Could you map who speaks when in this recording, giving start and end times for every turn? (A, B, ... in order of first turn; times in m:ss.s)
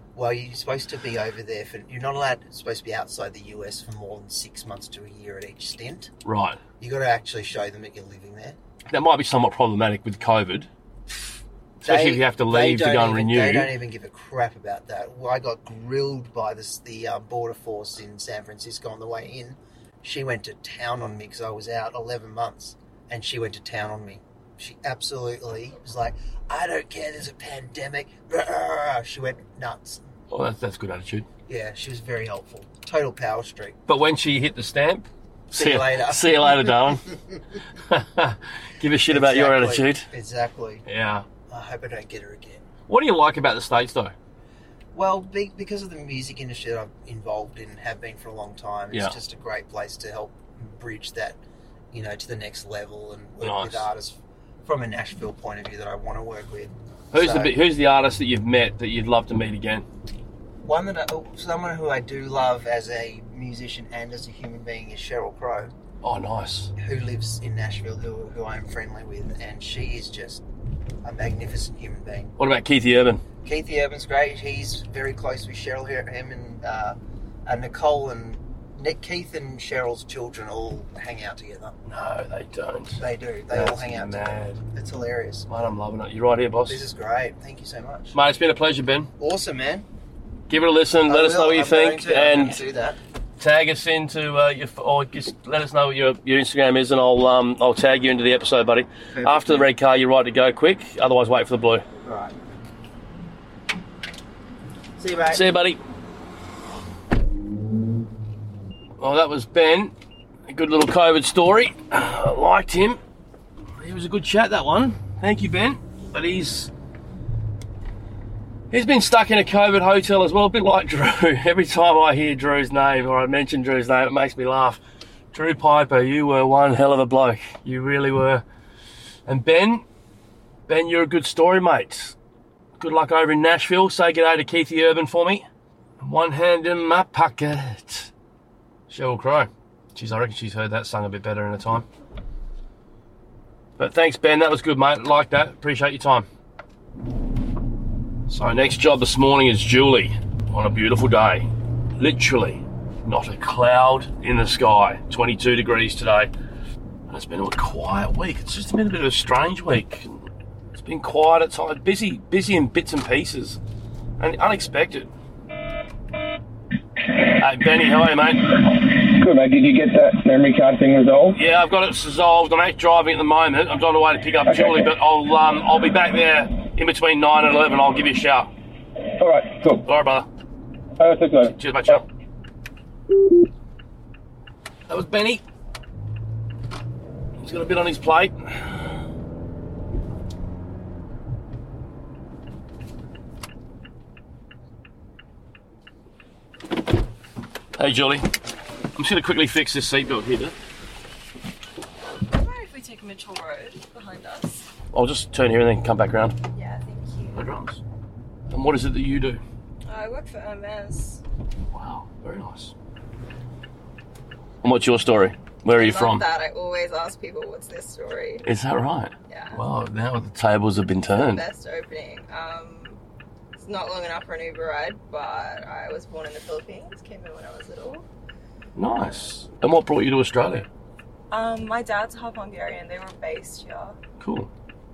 0:00.2-0:06.1 A
0:06.2-0:06.6 B
0:06.8-0:08.6 A
0:08.9-0:10.7 B
0:11.8-0:13.7 B
0:11.8-0:30.0 A
0:30.3-0:31.3 B
0:31.5-0:33.8 A
0:33.9-0:37.1 B
0:35.5-0:37.4 A
0:37.7-0:40.1 B
0:39.1-0:40.8 A
0:40.9-0:41.3 B
0:41.5-0:42.7 A
0:42.9-0:44.1 B
0:44.9-0:51.4 A
0:51.9-0:57.6 A
0:53.4-0:53.9 B
0:57.1-0:59.8 B
1:00.6-1:05.7 A
1:06.0-1:06.7 B
1:06.8-1:10.4 A
1:11.0-1:12.4 A
1:12.4-1:13.2 B
1:13.4-1:21.8 A
1:21.9-1:24.6 B
1:23.0-1:25.5 A
1:25.5-1:26.8 B
1:26.7-1:28.2 A
1:28.1-1:29.1 B
1:29.2-1:29.9 A
1:30.5-1:32.6 B
1:31.1-1:33.0 A
1:33.4-1:41.8 B
1:39.1-1:39.7 A
1:42.0-1:42.4 A
1:45.0-1:45.5 A
1:45.3-1:45.8 B
1:49.0-1:49.9 B
1:50.5-1:53.0 B
1:53.8-1:56.7 B
1:58.7-2:04.8 B
2:05.3-2:08.4 B
2:09.3-2:09.8 B
2:10.7-2:12.2 B
2:12.8-2:15.4 B
2:16.0-2:18.1 B
2:18.9-2:21.9 B
2:23.8-2:26.3 B
2:28.3-2:31.5 B
2:32.0-2:36.3 B
2:37.1-2:40.2 B
2:40.8-2:43.6 B
2:44.2-2:45.1 B
2:47.4-2:48.5 B
2:48.9-2:51.4 C
2:51.4-2:58.5 B
2:54.5-2:54.9 C
2:59.2-2:59.9 C
2:59.8-3:00.3 B
3:01.0-3:02.0 C
3:01.6-3:02.1 B
3:04.9-3:05.4 B
3:07.4-3:08.6 B
3:17.8-3:18.3 B
3:19.0-3:20.5 B
3:22.3-3:24.7 D
3:24.9-3:26.4 B
3:26.5-3:27.4 D
3:27.3-3:27.8 B
3:28.5-3:29.4 B
3:29.9-3:31.2 D
3:31.7-3:32.7 B
3:34.6-3:36.2 B
3:35.7-3:38.5 D
3:38.4-3:41.4 B
3:39.3-3:39.6 D
3:41.1-3:43.0 D
3:43.6-3:48.0 D
3:48.8-3:50.7 B
3:51.3-3:54.0 D
3:54.2-3:54.5 B